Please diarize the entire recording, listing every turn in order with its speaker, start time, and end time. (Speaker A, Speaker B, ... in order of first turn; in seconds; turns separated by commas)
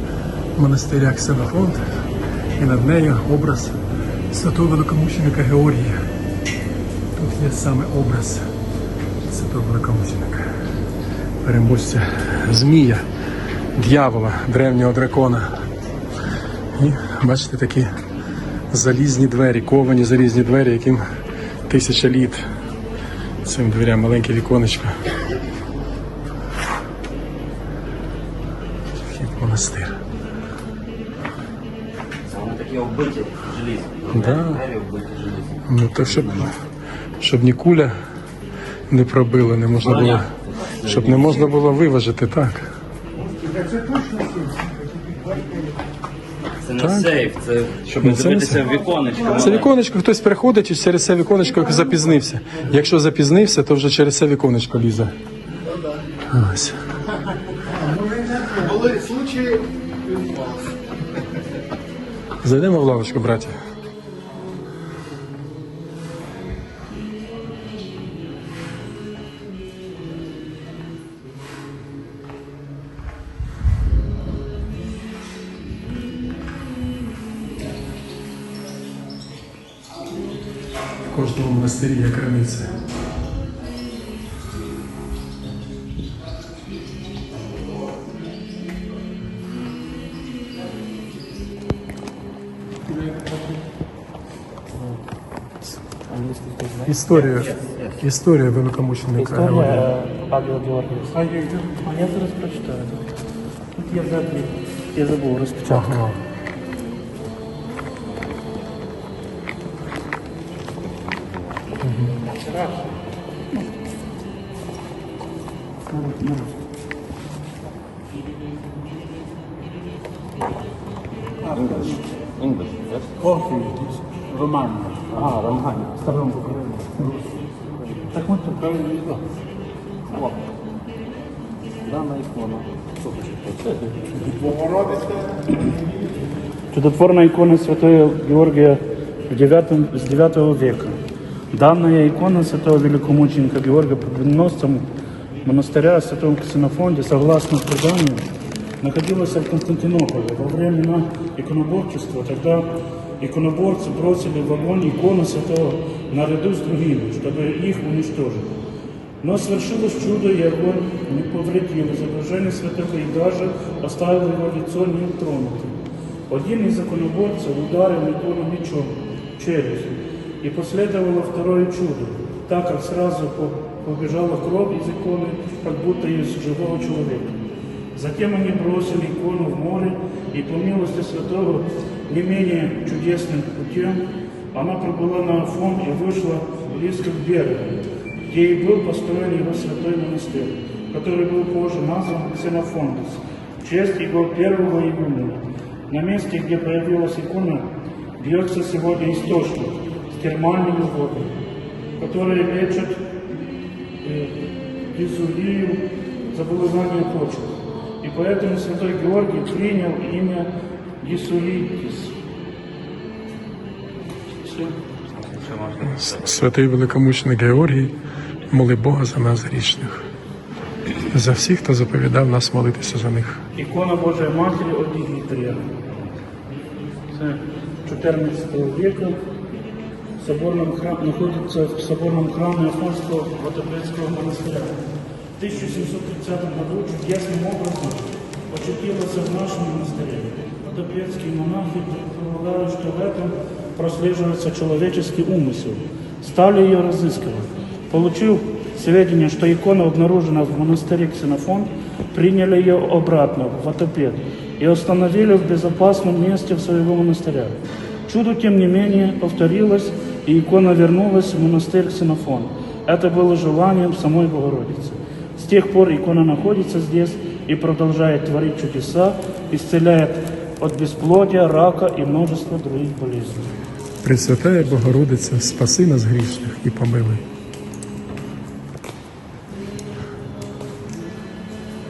Speaker A: 0.6-1.8, Speaker A: 2.5-3.8, Speaker A: 4.3-6.0, Speaker A: 7.2-8.5, Speaker A: 9.3-10.5, Speaker A: 11.4-13.0, Speaker A: 13.8-15.5, Speaker A: 16.8-17.9, Speaker A: 18.7-21.0, Speaker A: 21.7-22.5, Speaker A: 23.4-25.0, Speaker A: 29.0-30.0, Speaker B: 32.3-36.5, Speaker A: 34.1-34.6, Speaker A: 35.6-36.6, Speaker A: 37.2-38.0, Speaker A: 38.9-42.7, Speaker B: 39.8-41.5, Speaker B: 46.5-49.7, Speaker A: 46.8-47.2, Speaker A: 48.0-48.6, Speaker A: 49.2-55.1, Speaker A: 56.3-56.8, Speaker C: 58.6-60.7, Speaker A: 62.4-63.6, Speaker A: 81.1-82.8, Speaker D: 96.1-97.0, Speaker A: 96.8-99.9, Speaker B: 97.1-98.0, Speaker D: 99.2-103.1, Speaker D: 103.8-106.0, Speaker A: 105.7-106.2, Speaker A: 111.8-112.2, Speaker D: 115.9-116.6, Speaker B: 121.5-123.3, Speaker D: 123.2-123.8, Speaker D: 124.4-127.1, Speaker B: 125.1-126.0, Speaker D: 128.1-129.0, Speaker B: 128.8-129.2, Speaker B: 131.9-133.9, Speaker D: 136.7-141.0, Speaker D: 141.5-144.9, Speaker D: 145.4-148.3, Speaker D: 148.8-158.5, Speaker D: 159.2-165.8, Speaker D: 166.3-184.0, Speaker D: 184.5-201.4, Speaker D: 202.0-203.1, Speaker D: 204.0-204.4, Speaker D: 204.9-210.5, Speaker D: 211.0-212.2, Speaker D: 214.4-214.8, Speaker B: 215.2-216.2, Speaker A: 215.8-217.9, Speaker A: 218.5-220.1, Speaker A: 221.1-223.4, Speaker D: 223.6-225.7, Speaker D: 227.1-229.2, Speaker D: 230.2-234.8, Speaker D: 235.4-273.5, Speaker A: 274.0-277.2